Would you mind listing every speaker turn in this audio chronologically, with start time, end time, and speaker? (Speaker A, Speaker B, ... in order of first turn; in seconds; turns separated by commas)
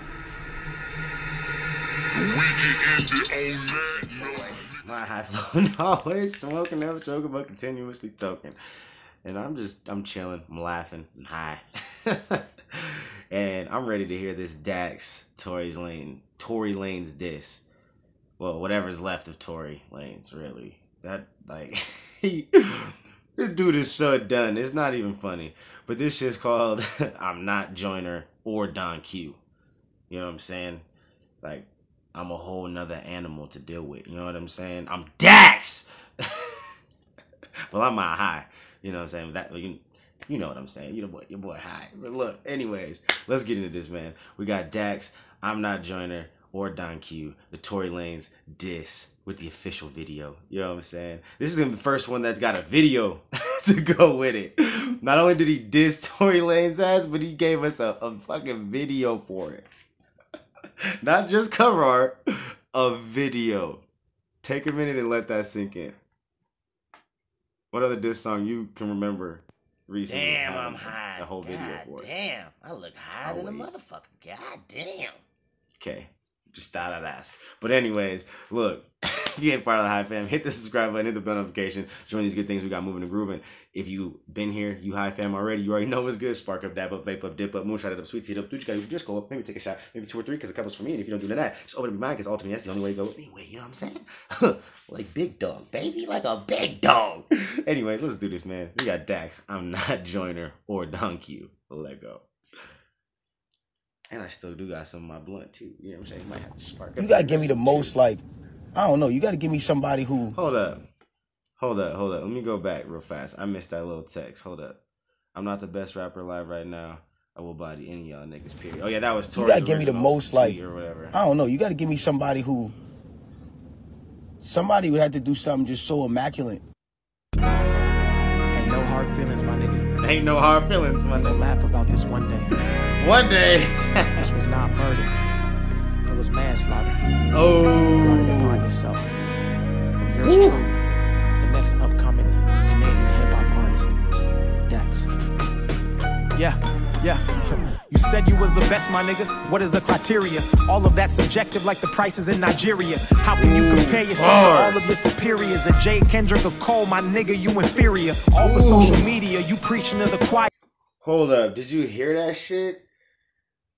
Speaker A: 2.1-4.8, Speaker B: 4.8-8.6, Speaker B: 9.2-12.4, Speaker B: 13.3-17.6, Speaker B: 18.4-29.4, Speaker B: 30.1-30.8, Speaker B: 31.4-35.9, Speaker B: 37.7-59.7, Speaker B: 61.0-62.2, Speaker B: 62.7-63.8, Speaker B: 64.4-66.0, Speaker B: 67.7-72.1, Speaker C: 70.1-75.2, Speaker B: 73.2-73.7, Speaker B: 75.8-102.2, Speaker B: 104.1-107.9, Speaker D: 107.0-108.2, Speaker D: 108.7-110.4, Speaker B: 110.3-110.8, Speaker B: 111.6-114.8, Speaker B: 115.3-121.1, Speaker D: 119.3-120.6, Speaker D: 121.1-122.7, Speaker D: 124.4-126.6, Speaker E: 128.5-129.8, Speaker B: 130.0-131.5, Speaker E: 131.1-132.5, Speaker B: 133.0-134.2, Speaker E: 134.2-135.1, Speaker E: 136.1-137.0, Speaker B: 137.3-138.6, Speaker E: 137.9-139.1, Speaker E: 139.9-140.8, Speaker B: 140.2-140.6, Speaker E: 141.4-143.9, Speaker E: 144.7-145.1, Speaker E: 146.3-160.5, Speaker B: 153.4-154.8, Speaker B: 158.4-159.1, Speaker B: 161.0-162.8